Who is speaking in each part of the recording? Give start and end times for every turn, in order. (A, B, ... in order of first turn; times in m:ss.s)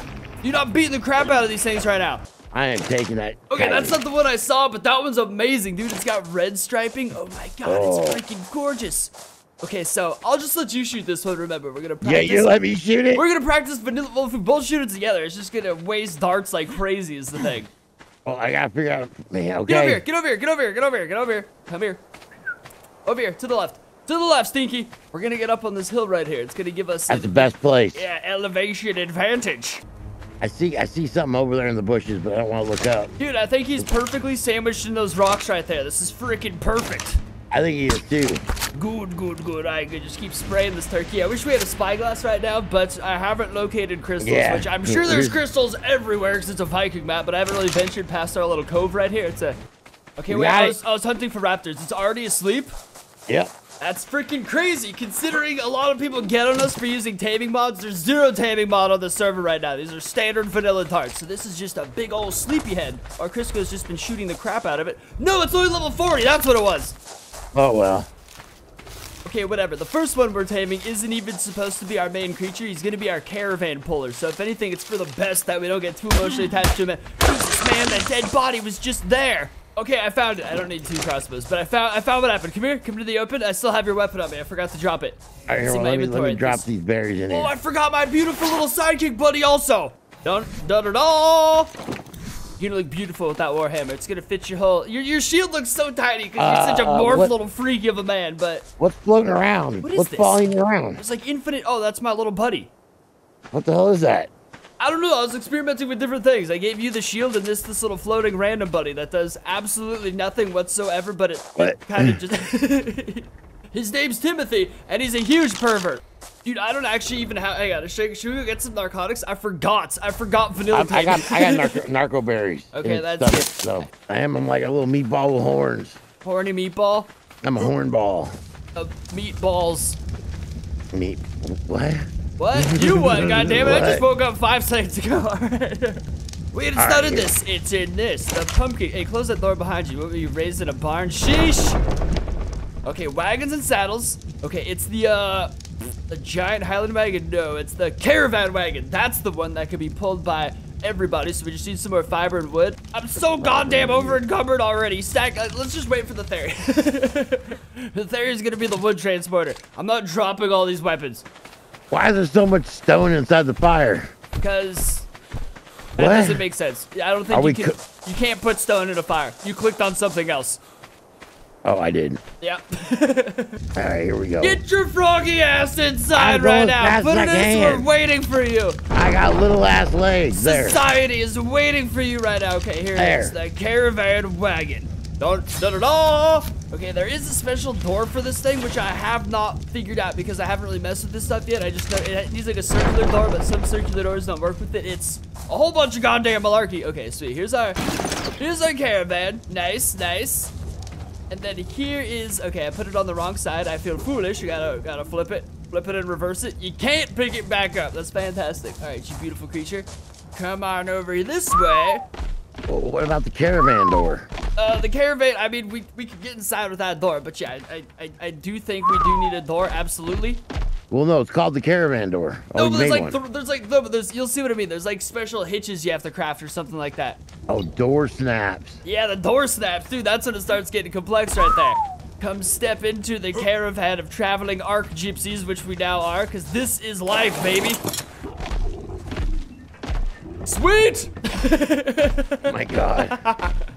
0:00.4-0:02.2 A
0:02.5-0:04.0 B
0:03.5-0:12.5 A
0:07.6-0:08.2 B
0:12.0-0:13.2 B
0:13.1-0:17.7 A
0:18.2-0:20.0 B
0:19.7-0:22.0 A
0:23.1-0:29.8 A
0:27.1-0:28.0 B
0:30.4-0:33.1 B
0:33.2-0:37.2 A
0:37.5-0:38.4 B
0:38.8-0:49.6 A
0:44.2-0:45.4 B
0:50.2-0:52.7 A
0:50.3-0:50.8 B
0:53.8-1:07.0 A
1:07.5-1:08.1 B
1:09.2-1:26.7 A
1:25.5-1:27.5 B
1:27.3-1:31.7 A
1:32.6-1:38.7 A
1:36.4-1:37.3 B
1:38.8-1:41.0 B
1:39.8-1:42.7 A
1:43.5-1:44.3 B
1:44.8-2:01.8 A
1:51.6-1:52.2 B
2:00.7-2:06.0 B
2:02.7-2:03.5 A
2:06.2-2:07.1 A
2:07.4-2:08.4 B
2:08.8-2:10.0 A
2:10.9-2:14.0 B
2:12.4-2:16.0 A
2:16.5-2:21.8 A
2:16.8-2:17.3 B
2:22.9-2:25.5 A
2:26.1-2:41.3 A
2:33.2-2:34.2 B
2:41.9-2:44.1 B
2:44.4-2:45.1 A
2:46.0-2:50.6 A
2:46.0-2:46.4 B
2:47.3-2:47.8 B
2:51.6-2:52.2 B
2:52.4-2:53.6 A
2:53.8-2:54.6 B
2:54.4-2:58.8 A
2:56.1-2:57.9 B
2:58.9-3:00.8 B
3:00.3-3:17.8 A
3:03.0-3:03.4 B
3:18.4-3:20.5 A
3:21.3-3:32.0 A
3:32.7-3:34.3 B
3:34.6-3:40.4 A
3:40.9-3:43.2 B
3:42.6-3:47.2 A
3:47.5-3:48.8 B
3:48.8-3:57.8 A
4:00.4-4:03.6 A
4:02.5-4:03.2 B